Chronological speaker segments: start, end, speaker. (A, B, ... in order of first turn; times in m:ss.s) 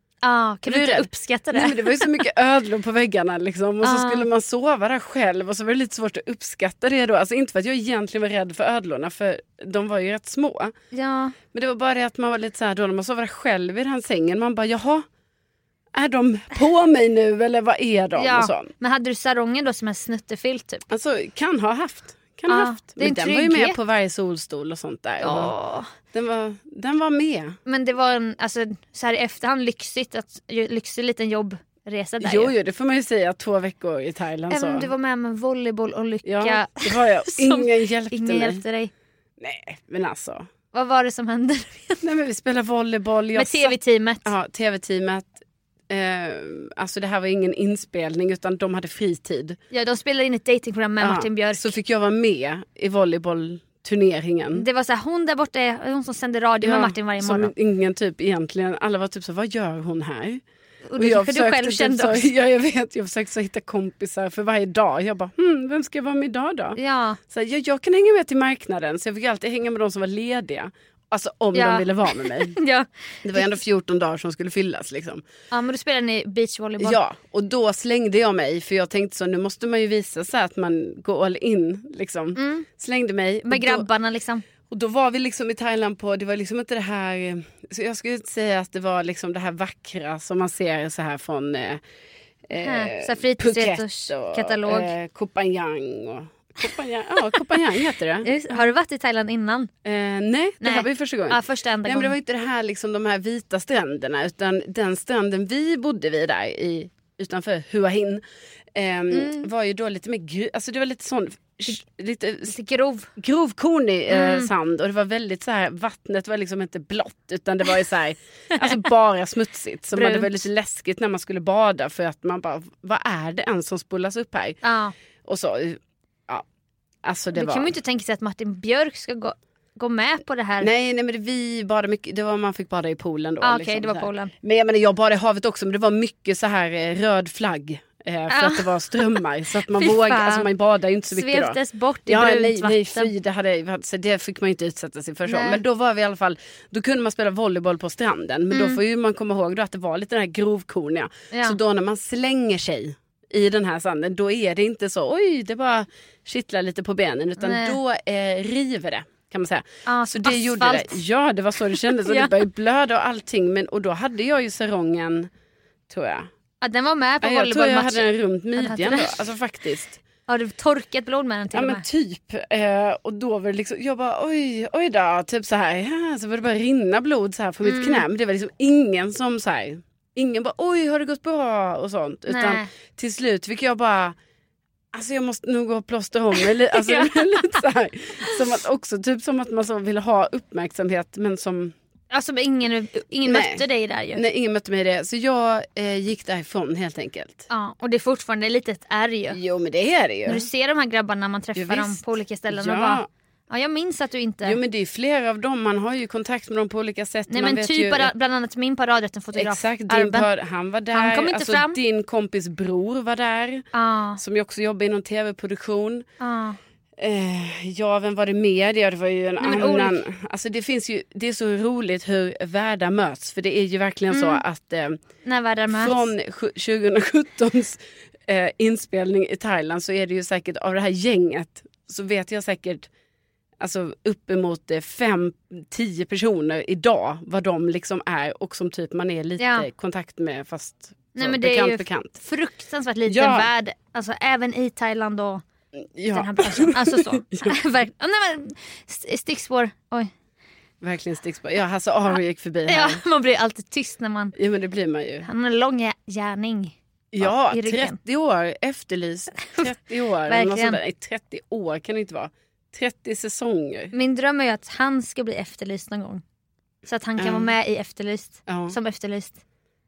0:00.2-0:02.1 A
0:00.7-0:10.7 B
0:03.8-0:04.3 A
0:10.9-0:11.4 A
0:11.5-0:15.1 B
0:15.9-0:18.7 B
0:18.2-0:20.8 A
0:20.9-0:25.5 B
0:22.5-0:23.8 A
0:25.2-0:25.9 A
0:26.1-0:27.6 B
0:27.7-0:32.5 A
0:32.2-0:34.9 B
0:34.5-0:38.9 A
0:36.2-0:38.6 B
0:39.4-0:40.5 B
0:40.7-0:42.1 A
0:42.0-0:45.4 B
0:43.4-0:44.3 A
0:45.9-0:49.6 B
0:49.7-0:51.7 A
0:51.0-0:54.7 B
0:54.5-0:57.5 A
0:56.6-1:00.4 B
1:00.9-1:02.3 A
1:01.0-1:06.8 B
1:06.8-1:07.2 A
1:07.3-1:12.6 B
1:11.5-1:13.5 A
1:13.2-1:15.2 B
1:15.5-1:17.0 A
1:16.8-1:23.9 B
1:22.4-1:22.7 A
1:23.5-1:24.4 A
1:24.7-1:31.8 B
1:32.5-1:38.6 B
1:32.6-1:34.9 A
1:38.2-1:39.7 A
1:39.8-1:48.2 B
1:40.6-1:42.1 A
1:48.7-1:52.6 B
1:49.1-1:49.5 A
1:52.5-1:53.1 A
1:53.2-2:04.6 B
1:54.1-1:54.5 A
1:59.9-2:00.4 A
2:04.6-2:04.9 A
2:05.2-2:06.4 B
2:07.0-2:07.7 B
2:07.3-2:10.7 A
2:10.6-2:45.3 B
2:13.4-2:14.3 A
2:18.3-2:19.2 A
2:19.7-2:20.5 A
2:21.1-2:23.1 A
2:25.3-2:25.6 A
2:28.5-2:28.8 A
2:31.3-2:31.6 A
2:37.4-2:37.8 A
2:39.9-2:41.0 A
2:41.7-2:42.4 A
2:45.9-2:46.3 B
2:46.6-2:49.2 A
2:47.2-2:50.0 B
2:50.3-2:51.8 A
2:51.5-3:04.2 B
2:57.6-2:58.1 A
3:02.3-3:02.7 A
3:04.9-3:11.8 B
3:06.7-3:07.6 A
3:12.1-3:14.2 A
3:13.3-3:13.6 B
3:14.1-3:17.5 B
3:17.5-3:19.4 A
3:19.3-3:20.5 B
3:20.3-3:24.6 A
3:21.6-3:23.1 B
3:24.4-3:28.1 B
3:27.3-3:30.3 A
3:29.4-3:33.6 B
3:30.9-3:31.8 A
3:33.7-3:34.2 A
3:34.2-3:36.1 B
3:36.2-3:36.6 A
3:37.0-3:45.0 B
3:39.4-3:40.0 A
3:44.1-3:44.4 A
3:45.2-3:46.1 A
3:45.7-3:52.9 B
3:53.6-4:02.2 B
3:59.4-3:59.7 A
4:01.2-4:05.4 A
4:03.1-4:03.5 B
4:05.8-4:07.6 B
4:06.1-4:10.1 A
4:10.8-4:13.0 B
4:12.7-4:14.4 A
4:14.4-4:15.3 B
4:15.2-4:18.0 A
4:17.1-4:23.9 B
4:19.4-4:19.7 A
4:20.3-4:20.8 A
4:23.9-4:26.2 A
4:26.8-4:29.4 A
4:27.2-4:27.5 B
4:28.5-4:28.8 B